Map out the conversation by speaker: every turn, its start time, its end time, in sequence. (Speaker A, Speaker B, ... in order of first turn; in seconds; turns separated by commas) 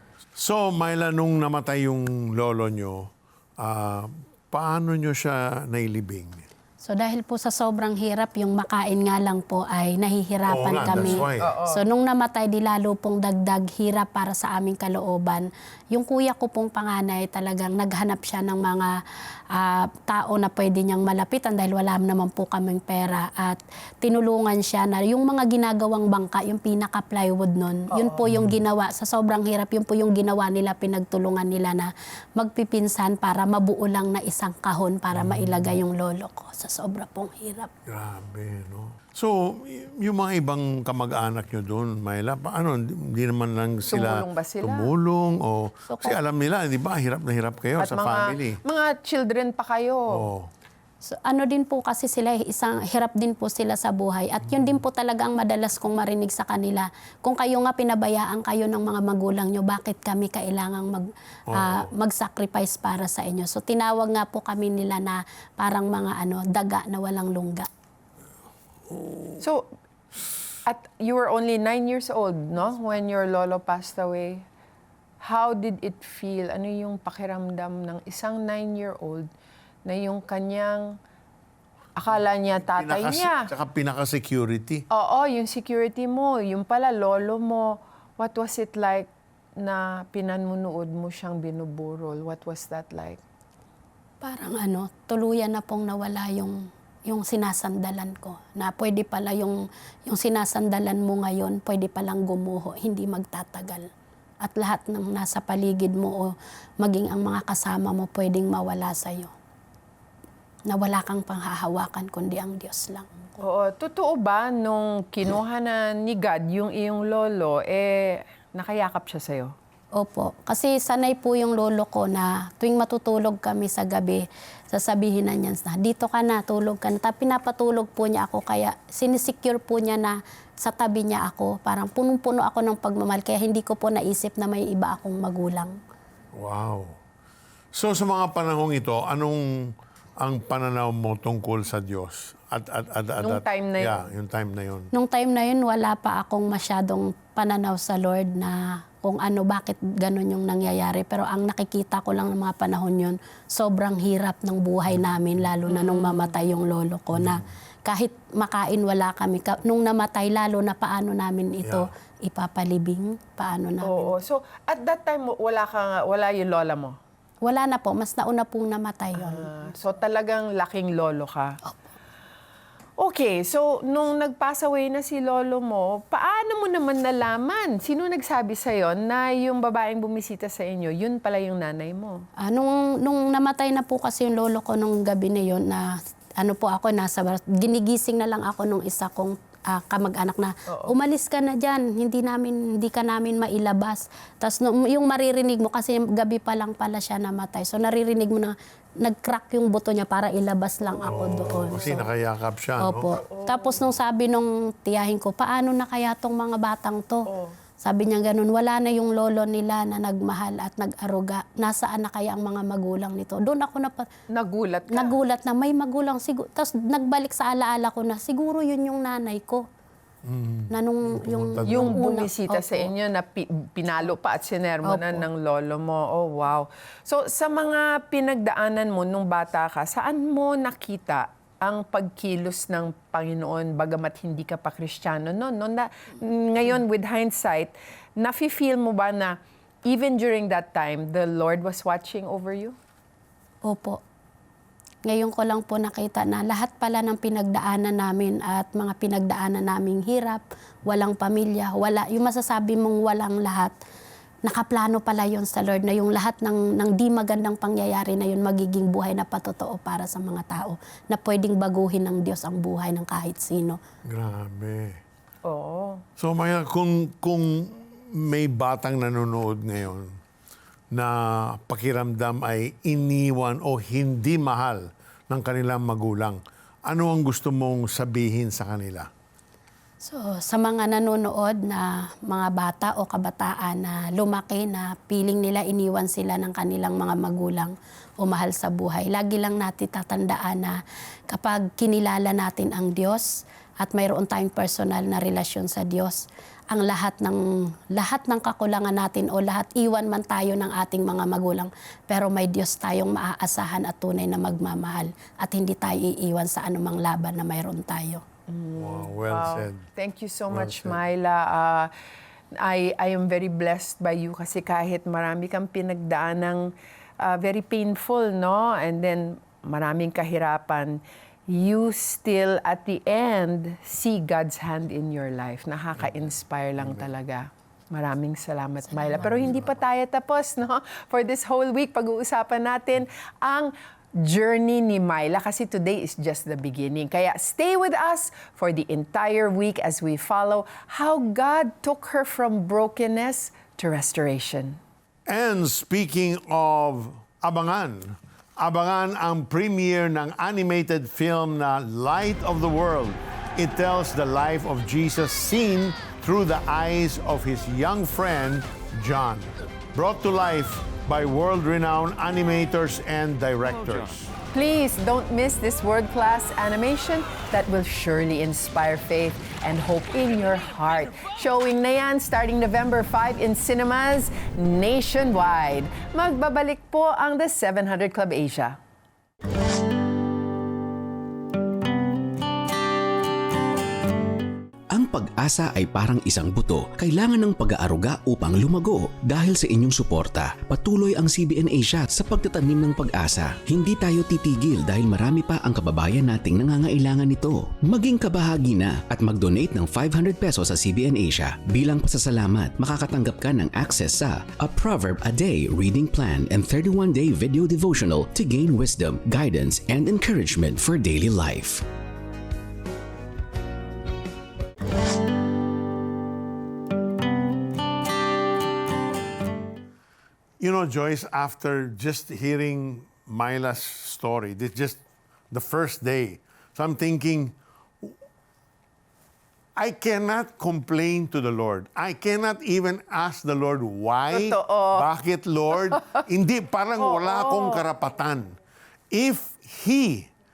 Speaker A: 0.4-6.5, Speaker B: 6.8-18.9, Speaker A: 10.5-11.5, Speaker C: 10.8-11.8, Speaker B: 19.5-37.7, Speaker C: 27.9-28.2, Speaker A: 28.2-28.6, Speaker A: 35.1-35.8, Speaker A: 37.9-48.6, Speaker C: 43.9-44.9, Speaker B: 45.9-46.2, Speaker C: 47.8-50.2, Speaker A: 50.1-50.5, Speaker B: 51.0-67.7, Speaker A: 54.5-54.8, Speaker A: 61.5-61.9, Speaker A: 68.9-69.4, Speaker C: 69.4-69.7, Speaker C: 70.7-74.4, Speaker C: 75.2-79.3, Speaker C: 79.8-81.0, Speaker C: 82.0-83.5, Speaker A: 82.6-84.8, Speaker C: 84.9-93.2, Speaker B: 94.2-103.9, Speaker B: 104.4-109.3, Speaker B: 110.7-113.1, Speaker C: 113.4-119.5, Speaker B: 119.9-135.8, Speaker A: 136.3-137.0, Speaker A: 137.7-144.9, Speaker C: 143.2-144.0, Speaker B: 144.9-164.1, Speaker A: 154.9-155.4, Speaker C: 155.7-156.3, Speaker A: 157.1-157.5, Speaker A: 161.6-161.9, Speaker C: 163.8-167.0, Speaker B: 167.4-169.5, Speaker C: 169.2-171.6, Speaker C: 173.0-182.2, Speaker B: 182.4-202.0, Speaker C: 190.7-190.9, Speaker C: 200.8-202.0, Speaker A: 201.1-203.2, Speaker B: 202.8-207.3, Speaker C: 203.2-203.8, Speaker C: 207.3-207.5, Speaker B: 207.8-214.1, Speaker C: 214.3-215.2, Speaker B: 214.9-219.7, Speaker A: 220.2-222.0, Speaker B: 220.7-222.9, Speaker C: 221.7-242.8, Speaker B: 224.8-225.2, Speaker B: 243.6-244.0, Speaker B: 245.0-253.7, Speaker B: 254.4-263.8, Speaker A: 264.1-265.0, Speaker C: 265.4-266.0, Speaker A: 266.2-270.2, Speaker A: 270.9-279.1, Speaker B: 280.0-290.8, Speaker B: 291.3-297.4, Speaker B: 297.9-308.2, Speaker C: 308.5-311.9, Speaker A: 308.8-309.8, Speaker A: 310.5-311.0, Speaker C: 312.6-344.8, Speaker B: 328.9-329.3, Speaker A: 329.3-329.8, Speaker A: 345.3-364.3, Speaker C: 364.5-378.8, Speaker D: 384.9-411.8, Speaker A: 420.6-428.1, Speaker A: 429.8-438.5, Speaker C: 434.3-435.1, Speaker C: 435.9-436.2, Speaker C: 437.0-437.8, Speaker A: 439.1-440.3